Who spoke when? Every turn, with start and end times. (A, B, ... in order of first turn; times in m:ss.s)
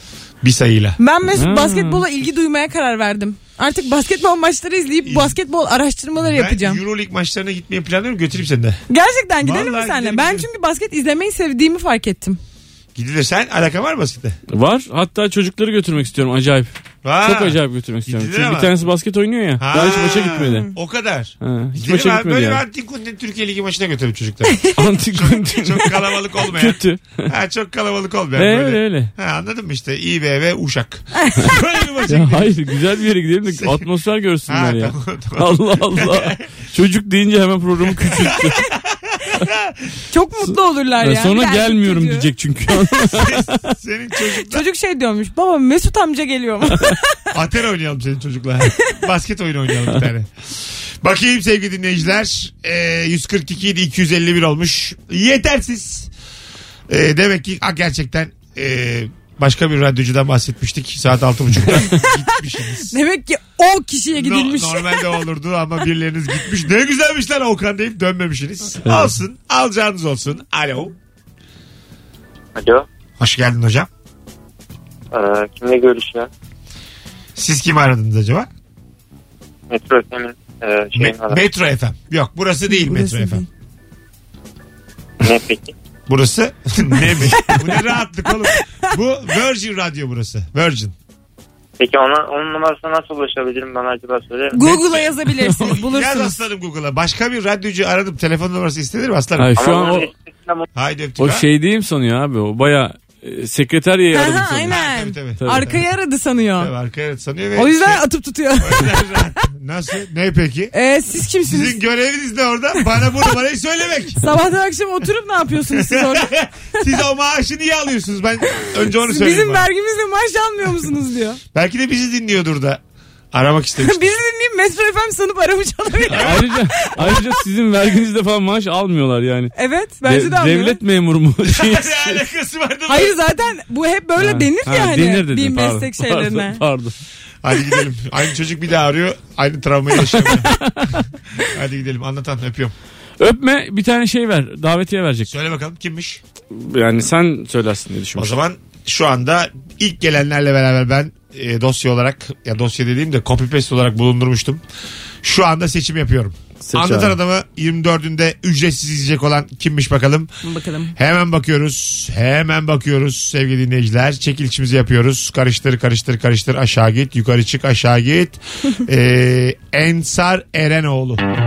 0:00.4-0:01.0 A
0:01.0-0:06.8 B
0:01.3-0:02.0 C
0:05.0-0:05.4 A
0:06.2-0:08.8 A
0:08.9-0:12.4 B
0:09.4-0:10.5 A
0:12.9-0:14.4 A
0:14.5-0:20.7 C
0:17.0-0:18.8 A
0:19.6-0:32.6 A
0:21.4-0:22.6 C
0:24.5-0:24.8 B
0:24.7-0:27.3 C
0:28.4-0:29.1 C
0:32.1-0:38.6 C
0:33.4-0:33.9 A
0:34.4-0:36.4 A
0:37.8-0:39.9 A
0:40.1-0:42.3 B
0:40.5-0:43.6 C
0:43.1-0:44.6 A
0:44.4-0:47.0 B
0:47.3-0:56.1 A
0:56.9-1:02.9 A
1:01.9-1:02.2 B
1:02.9-1:05.2 B
1:04.1-1:11.0 A
1:12.5-1:12.8 D
1:13.2-1:13.9 A
1:15.1-1:16.3 D
1:17.3-1:18.5 A
1:19.7-1:21.4 D
1:20.9-1:23.4 A
1:22.7-1:23.4 B
1:25.2-1:25.7 D
1:26.1-1:30.9 A
1:26.9-1:27.8 B
1:31.8-1:34.6 D
1:34.5-1:36.4 B
1:34.6-1:39.6 A
1:39.4-1:40.1 C
1:39.6-1:40.6 D
1:40.8-1:41.5 A
1:41.2-1:44.8 C
1:44.1-1:46.7 B
1:44.7-1:45.8 A
1:45.4-1:45.7 C
1:46.6-1:48.0 A
1:47.5-1:49.3 B
1:48.6-1:50.7 A
1:50.7-1:51.8 B
1:51.4-1:54.3 A
1:54.2-1:56.3 B
1:55.6-1:59.7 A
1:59.0-2:01.4 B
2:01.5-2:04.1 A
2:03.8-2:07.3 B
2:06.1-2:06.5 A
2:06.1-2:09.5 C
2:09.5-2:10.8 B
2:10.0-2:12.2 C
2:11.4-2:13.2 A
2:12.9-2:16.6 B
2:14.2-2:17.0 C
2:17.4-2:20.6 A
2:20.0-2:21.0 C
2:21.4-2:22.7 A
2:23.2-2:25.3 C
2:25.2-2:26.2 A
2:26.5-2:28.3 C
2:28.2-2:34.6 A
2:35.2-2:40.3 A
2:36.6-2:37.1 C
2:40.4-2:40.9 B
2:40.9-2:51.2 A